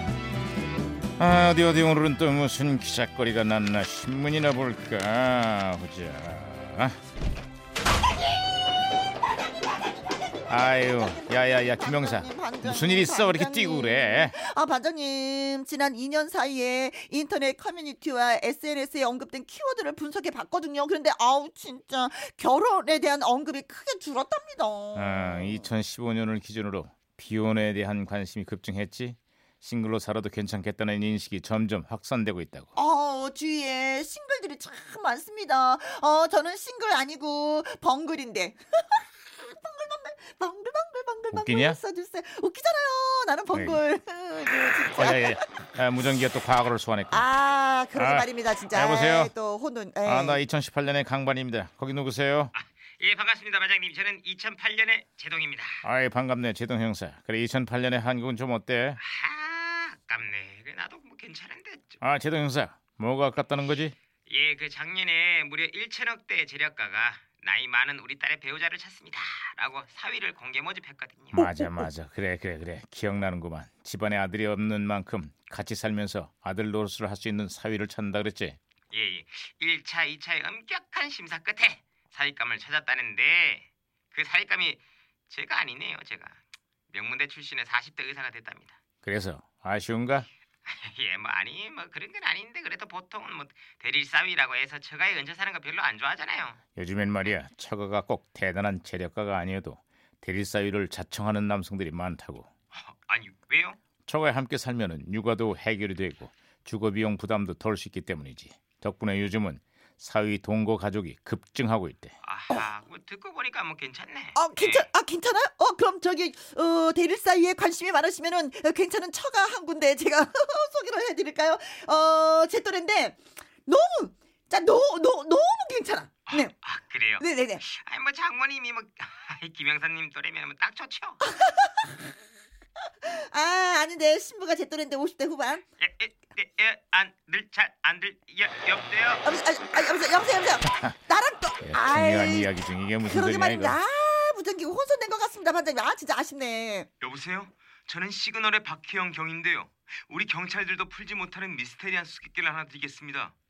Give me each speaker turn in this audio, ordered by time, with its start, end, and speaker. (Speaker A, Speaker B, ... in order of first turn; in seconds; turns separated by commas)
Speaker A: 1.2-7.0, Speaker A: 10.5-14.3, Speaker B: 10.7-25.7, Speaker A: 24.9-32.7, Speaker B: 32.8-38.8, Speaker B: 39.5-45.5, Speaker A: 41.3-41.8, Speaker A: 43.5-43.8, Speaker A: 44.9-47.3, Speaker B: 47.1-50.4, Speaker A: 48.0-49.3, Speaker A: 50.0-52.5, Speaker C: 52.5-55.8, Speaker A: 55.8-59.0, Speaker C: 59.0-62.0, Speaker A: 62.0-63.9, Speaker C: 64.3-71.4, Speaker A: 71.3-78.6, Speaker B: 71.4-71.9, Speaker C: 78.9-88.8, Speaker A: 89.0-90.3, Speaker C: 90.7-96.6, Speaker A: 96.8-102.5, Speaker C: 102.8-103.8, Speaker A: 104.1-112.1, Speaker C: 112.2-114.9, Speaker B: 114.3-126.5, Speaker C: 126.3-131.2, Speaker B: 127.2-127.6, Speaker B: 131.2-132.0, Speaker B: 133.0-135.6, Speaker C: 135.8-139.2, Speaker B: 139.2-146.9, Speaker A: 141.6-143.8, Speaker C: 147.0-153.4